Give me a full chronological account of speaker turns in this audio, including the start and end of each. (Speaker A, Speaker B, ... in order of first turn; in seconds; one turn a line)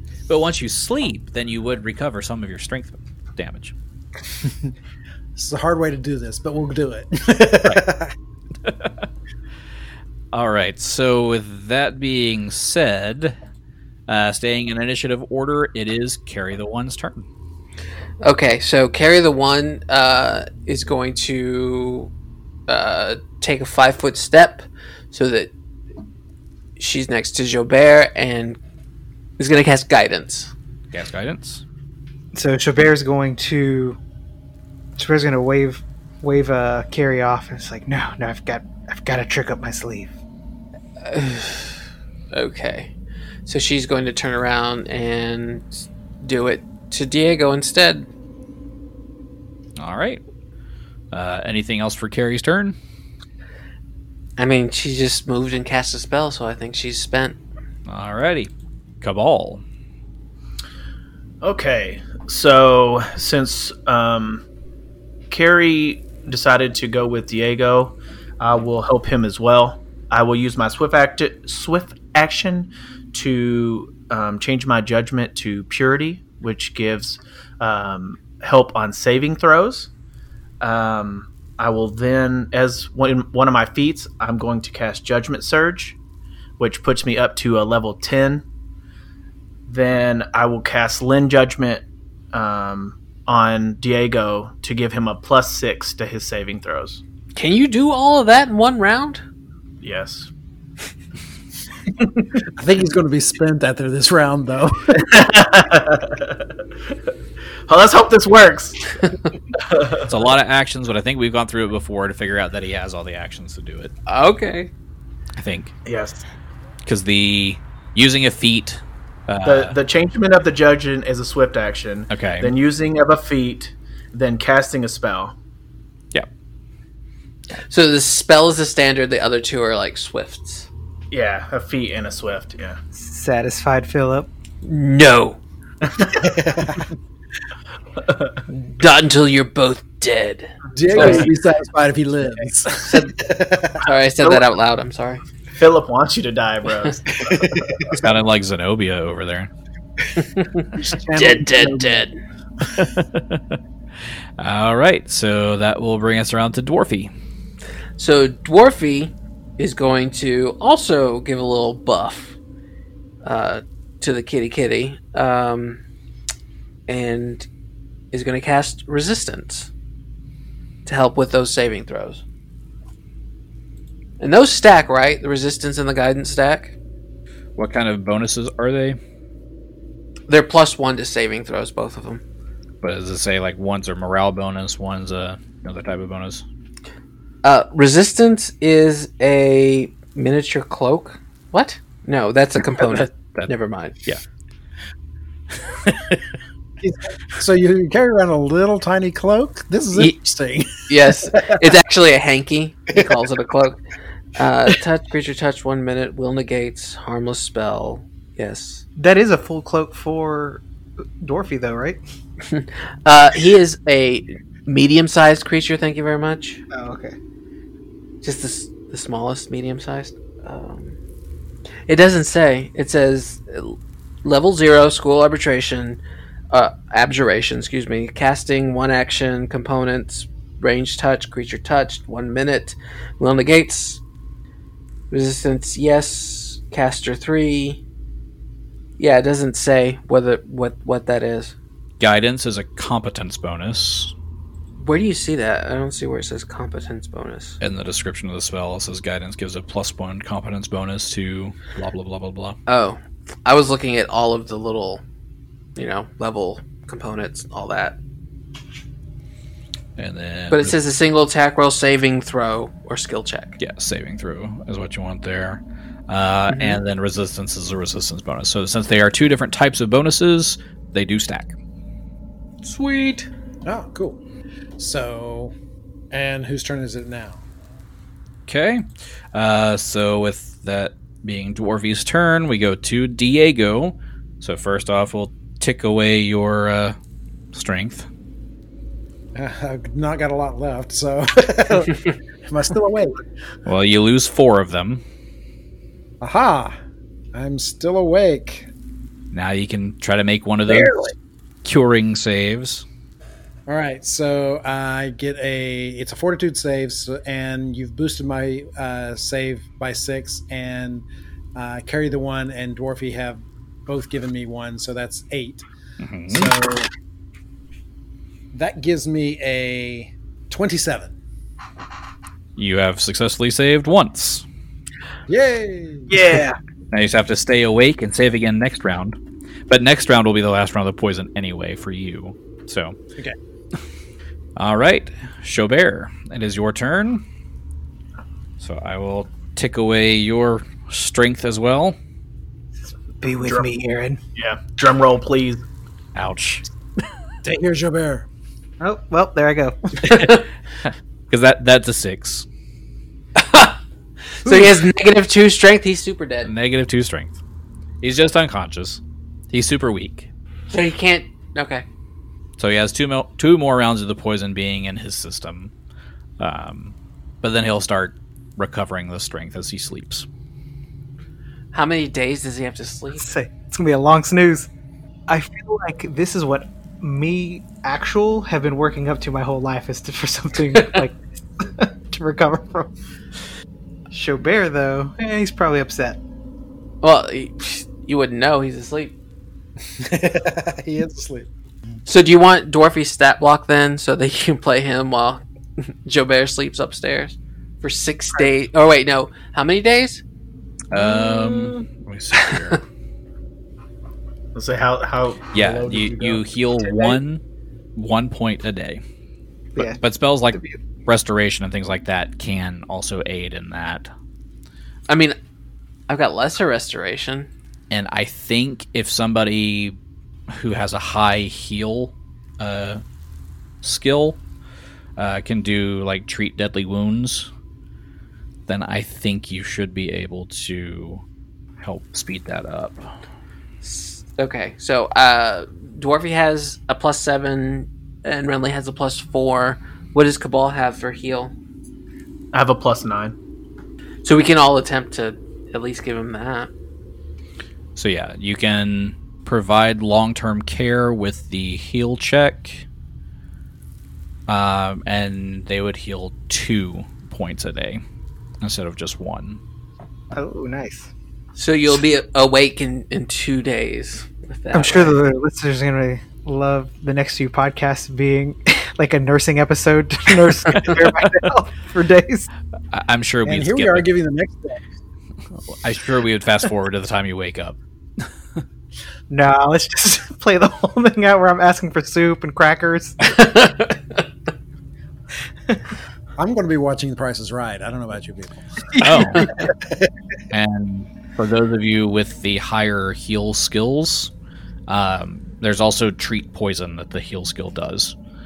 Speaker A: 0.3-3.7
Speaker B: 5.4-8.1
Speaker A: 8.6-8.9
Speaker A: 10.3-13.4
Speaker A: 14.1-17.3
Speaker C: 18.2-22.1
Speaker C: 22.7-25.5
Speaker C: 26.8-28.6
Speaker C: 29.4-30.5
Speaker A: 30.9-31.6
Speaker D: 32.3-34.0
Speaker D: 35.0-40.1
Speaker C: 41.0-41.8
Speaker C: 42.3-42.9
Speaker C: 43.5-48.1
Speaker A: 49.8-50.2
Speaker A: 51.1-52.8
Speaker C: 54.4-57.4
Speaker A: 57.9-59.6
Speaker E: 61.4-64.4
Speaker E: 65.3-79.9
Speaker E: 80.6-86.0
Speaker E: 86.6-88.4
Speaker E: 89.7-97.0
Speaker C: 97.3-99.2
Speaker E: 99.8-100.3
Speaker B: 102.6-105.1
Speaker E: 105.0-106.5
Speaker E: 107.7-109.0
Speaker E: 109.6-110.1
Speaker A: 110.1-113.9
Speaker C: 114.1-114.7
Speaker A: 115.4-115.7
Speaker E: 115.9-116.2
Speaker A: 116.9-119.8
Speaker E: 119.5-125.3
Speaker A: 122.1-122.5
Speaker C: 127.7-130.7
Speaker E: 131.1-132.8
Speaker D: 132.9-134.3
Speaker C: 134.6-135.4
Speaker E: 135.8-136.3
Speaker B: 136.2-136.9
Speaker E: 138.0-138.4
Speaker C: 138.5-141.3
Speaker B: 140.8-143.8
Speaker E: 140.9-141.3
Speaker C: 142.8-143.2
Speaker C: 143.8-145.2
Speaker E: 145.6-148.0
Speaker B: 147.2-147.9
Speaker A: 147.9-149.5
Speaker C: 150.4-152.2
Speaker B: 150.8-152.1
Speaker A: 152.7-153.6
Speaker A: 154.4-157.1
Speaker C: 158.0-162.4
Speaker C: 163.2-165.8
Speaker C: 166.9-167.5
Speaker C: 168.1-169.7
Speaker C: 170.9-172.2
Speaker C: 174.2-176.7
Speaker A: 177.6-179.0
Speaker C: 180.3-182.2
Speaker A: 182.8-186.4
Speaker C: 187.4-194.0
Speaker A: 193.2-193.5
Speaker A: 195.6-196.2
Speaker B: 196.8-201.7
Speaker C: 200.9-203.8
Speaker C: 204.4-208.8
Speaker D: 209.0-210.6
Speaker D: 211.2-212.0
Speaker C: 212.4-216.6
Speaker D: 216.7-217.2
Speaker C: 218.2-221.0
Speaker C: 221.9-226.0
Speaker C: 226.5-234.0
Speaker C: 235.1-237.8
Speaker C: 239.0-241.6
Speaker A: 242.0-244.1
Speaker C: 244.8-247.6
Speaker A: 247.6-252.6
Speaker C: 252.7-255.0
Speaker C: 255.8-258.0
Speaker A: 260.0-260.8
Speaker C: 260.5-263.6
Speaker A: 263.6-271.6
Speaker C: 266.5-266.8
Speaker C: 272.6-273.3
Speaker B: 273.6-274.2
Speaker B: 274.8-275.5
Speaker B: 276.1-277.4
Speaker A: 278.5-287.0
Speaker A: 287.5-288.1
Speaker B: 289.4-293.2
Speaker A: 293.7-295.0
Speaker B: 296.2-296.8
Speaker B: 297.3-298.7
Speaker A: 299.3-301.1
Speaker B: 300.7-301.1
Speaker A: 301.6-302.9
Speaker B: 303.7-315.6
Speaker A: 316.0-316.5
Speaker B: 316.3-316.9
Speaker B: 318.5-321.1
Speaker A: 322.6-324.4
Speaker B: 325.3-326.2
Speaker E: 326.1-326.6
Speaker A: 326.9-329.2
Speaker A: 329.7-333.0
Speaker A: 334.6-337.2
Speaker A: 338.6-342.0
Speaker D: 343.2-344.2
Speaker E: 343.4-343.7
Speaker E: 344.4-345.6
Speaker A: 346.1-346.7
Speaker B: 347.4-348.3
Speaker D: 348.8-350.3
Speaker C: 350.1-350.4
Speaker A: 350.9-352.5
Speaker C: 353.4-353.8
Speaker C: 354.4-356.5
Speaker A: 356.4-357.4
Speaker A: 358.0-359.0
Speaker A: 359.5-360.3
Speaker C: 360.7-361.8
Speaker A: 362.6-365.7
Speaker A: 366.4-370.3
Speaker C: 371.7-373.2
Speaker D: 373.2-374.7
Speaker D: 375.3-382.9
Speaker D: 384.1-386.2
Speaker C: 387.0-389.1
Speaker B: 390.0-391.5
Speaker C: 392.1-400.2
Speaker A: 400.9-402.8
Speaker E: 404.6-407.2
Speaker A: 405.5-407.4
Speaker A: 408.0-409.0
Speaker A: 409.8-414.1
Speaker C: 415.1-415.4
Speaker C: 416.1-417.5
Speaker A: 417.9-420.0
Speaker A: 420.5-423.0
Speaker A: 423.8-424.4
Speaker A: 425.2-427.5
Speaker A: 428.7-431.2
Speaker A: 431.8-433.1
Speaker C: 433.8-441.5
Speaker E: 442.5-443.4
Speaker C: 444.2-446.7
Speaker A: 448.0-452.9
Speaker A: 454.5-458.0
Speaker A: 458.6-459.6
Speaker D: 460.3-461.1
Speaker C: 461.6-465.2
Speaker D: 464.7-472.5
Speaker A: 472.9-474.1
Speaker B: 473.4-474.8
Speaker A: 475.7-477.8
Speaker D: 479.3-483.4
Speaker C: 483.2-484.2
Speaker B: 486.4-488.9
Speaker A: 489.0-489.5
Speaker D: 489.0-489.5
Speaker B: 489.7-490.1
Speaker A: 490.5-494.3
Speaker A: 494.9-498.1